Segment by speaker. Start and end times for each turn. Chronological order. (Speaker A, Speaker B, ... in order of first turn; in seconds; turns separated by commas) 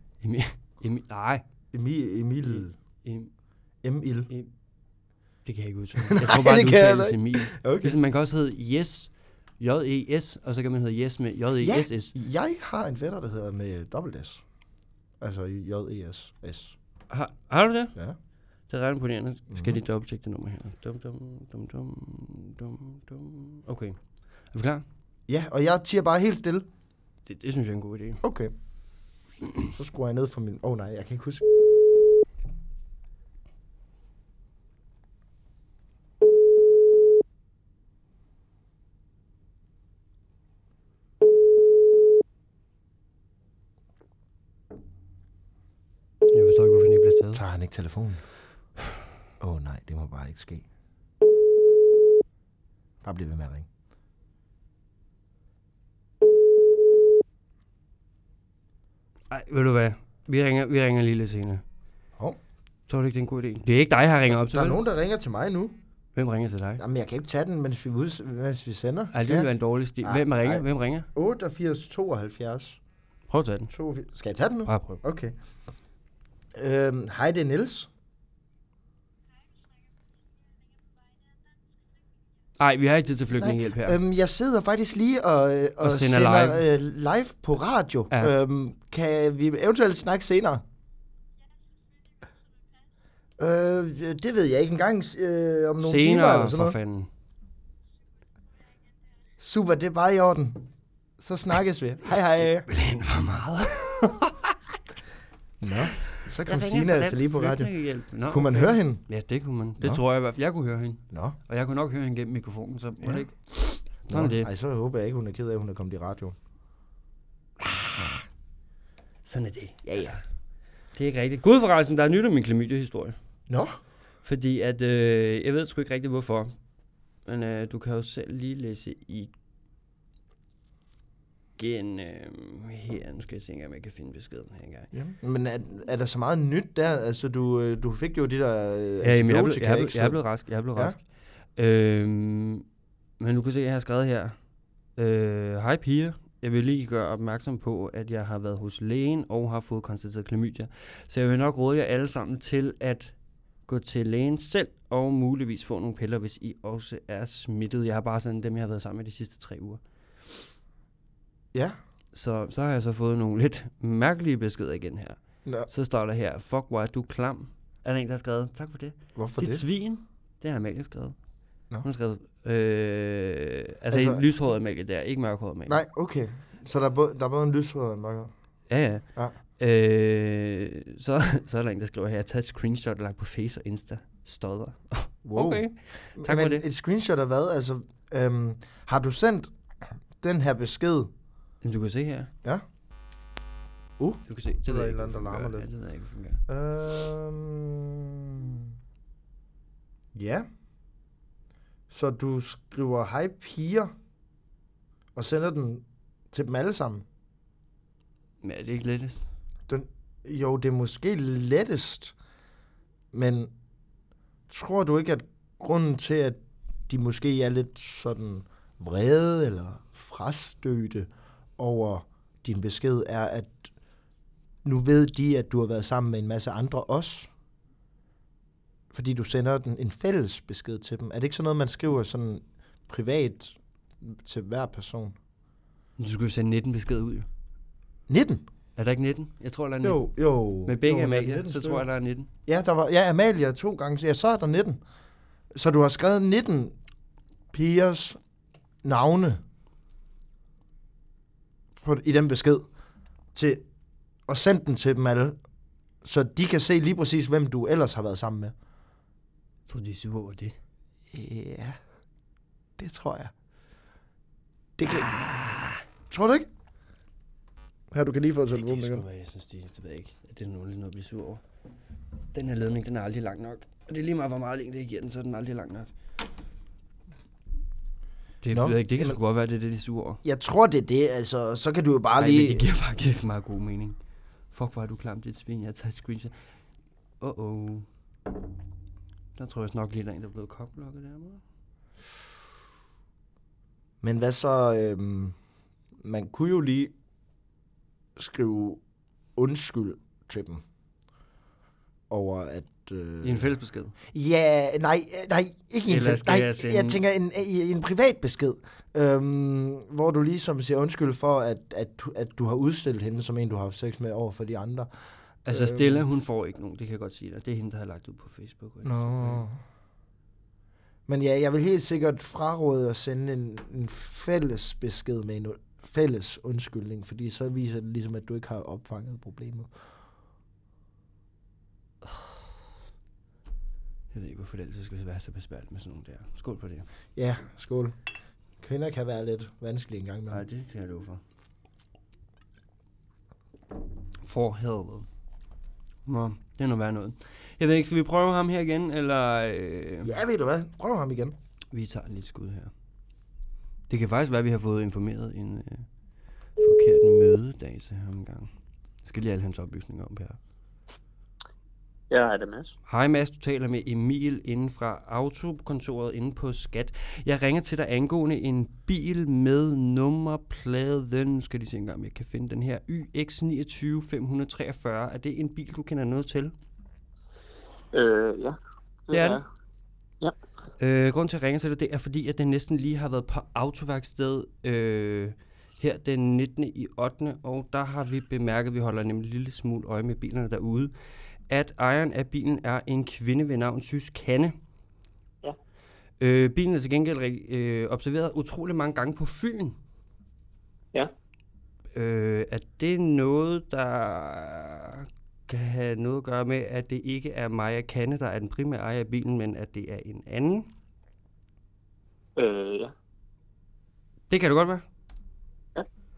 Speaker A: 0.2-1.4, Speaker B: 1.7-2.7, Speaker A: 2.4-3.3, Speaker B: 3.8-4.3, Speaker A: 5.4-12.1, Speaker B: 6.0-8.0, Speaker B: 11.6-14.4, Speaker B: 15.2-16.7, Speaker A: 17.1-17.9, Speaker A: 18.7-24.0, Speaker B: 19.5-19.8, Speaker A: 24.5-24.8, Speaker B: 25.3-26.6, Speaker A: 27.2-28.2, Speaker B: 28.2-28.5, Speaker B: 29.7-31.4, Speaker A: 46.3-47.4, Speaker B: 47.3-48.2, Speaker B: 49.4-50.6, Speaker B: 53.0-53.6, Speaker A: 59.3-61.6, Speaker A: 62.9-64.8, Speaker B: 64.4-65.8, Speaker A: 66.1-66.8, Speaker B: 66.8-69.5, Speaker A: 69.1-71.1, Speaker B: 70.0-72.8, Speaker A: 73.3-73.7, Speaker B: 73.7-75.3, Speaker A: 74.7-75.0, Speaker B: 76.5-77.9, Speaker A: 82.6-84.0, Speaker B: 83.3-90.6, Speaker A: 85.8-86.6, Speaker B: 93.4-96.8, Speaker A: 95.8-97.1, Speaker B: 99.4-100.7, Speaker B: 101.2-102.7, Speaker A: 102.1-104.5, Speaker B: 105.6-107.7, Speaker A: 106.4-114.5, Speaker B: 108.3-109.0, Speaker B: 111.1-111.4, Speaker B: 113.9-116.3, Speaker B: 117.6-118.2, Speaker A: 119.2-120.2, Speaker B: 119.8-120.2, Speaker A: 120.9-123.2, Speaker B: 123.5-123.8, Speaker A: 124.2-126.5, Speaker A: 127.2-129.3, Speaker A: 131.6-134.9, Speaker B: 134.9-140.9, Speaker A: 139.0-141.0, Speaker A: 141.5-142.6, Speaker A: 143.2-144.4, Speaker A: 144.9-153.1, Speaker A: 153.7-159.8, Speaker A: 162.1-171.2, Speaker B: 169.2-169.6, Speaker A: 171.8-175.8, Speaker B: 173.9-174.2, Speaker B: 175.7-178.3, Speaker A: 178.7-186.6, Speaker B: 185.2-189.5, Speaker B: 190.2-191.1, Speaker A: 191.6-192.3, Speaker B: 194.0-195.7, Speaker A: 194.2-196.4, Speaker B: 196.5-198.7, Speaker B: 200.1-200.5, Speaker B: 201.9-203.9, Speaker B: 205.1-207.0, Speaker A: 208.4-209.3, Speaker B: 209.7-212.1, Speaker B: 213.1-213.5, Speaker B: 214.5-223.7, Speaker B: 224.6-227.3, Speaker B: 228.9-235.1, Speaker A: 236.0-237.3, Speaker B: 238.1-238.4, Speaker A: 238.8-240.0, Speaker B: 239.8-241.9, Speaker A: 240.6-242.3, Speaker B: 242.4-244.8, Speaker B: 245.5-246.7, Speaker B: 247.5-248.2, Speaker B: 248.8-249.4, Speaker B: 251.8-252.7, Speaker B: 253.3-253.6, Speaker B: 254.3-255.4, Speaker B: 256.0-258.5, Speaker A: 259.7-260.6, Speaker B: 261.1-261.8, Speaker B: 262.8-263.3, Speaker B: 264.8-265.3, Speaker A: 264.9-265.8, Speaker B: 266.1-266.5, Speaker B: 267.9-269.0, Speaker A: 268.5-271.4, Speaker A: 272.3-275.9, Speaker A: 278.4-280.2, Speaker B: 278.5-279.2, Speaker B: 280.2-282.6, Speaker A: 282.1-284.0, Speaker A: 284.5-286.4, Speaker A: 287.2-287.9, Speaker A: 289.3-291.4, Speaker B: 294.0-295.4, Speaker B: 296.0-296.9, Speaker B: 298.1-298.8, Speaker B: 299.4-300.6, Speaker B: 302.1-303.5, Speaker A: 303.2-303.9, Speaker B: 304.1-314.9, Speaker A: 305.9-307.0, Speaker A: 315.4-319.4, Speaker B: 315.5-316.0, Speaker B: 318.8-319.6, Speaker B: 321.1-329.7, Speaker A: 332.1-332.4, Speaker A: 334.1-336.9, Speaker B: 337.1-337.9, Speaker B: 338.6-340.4, Speaker A: 340.3-341.2, Speaker A: 344.2-345.1, Speaker A: 346.1-350.1, Speaker B: 350.0-351.4, Speaker A: 351.7-352.7, Speaker A: 353.9-355.9, Speaker A: 356.6-358.5, Speaker A: 359.0-360.4, Speaker C: 362.1-362.7, Speaker A: 362.9-376.5, Speaker C: 377.9-379.4, Speaker A: 379.1-379.4, Speaker A: 380.8-390.9, Speaker A: 391.5-394.5, Speaker A: 396.2-399.8, Speaker A: 401.9-410.7, Speaker C: 412.4-412.9, Speaker A: 414.3-414.8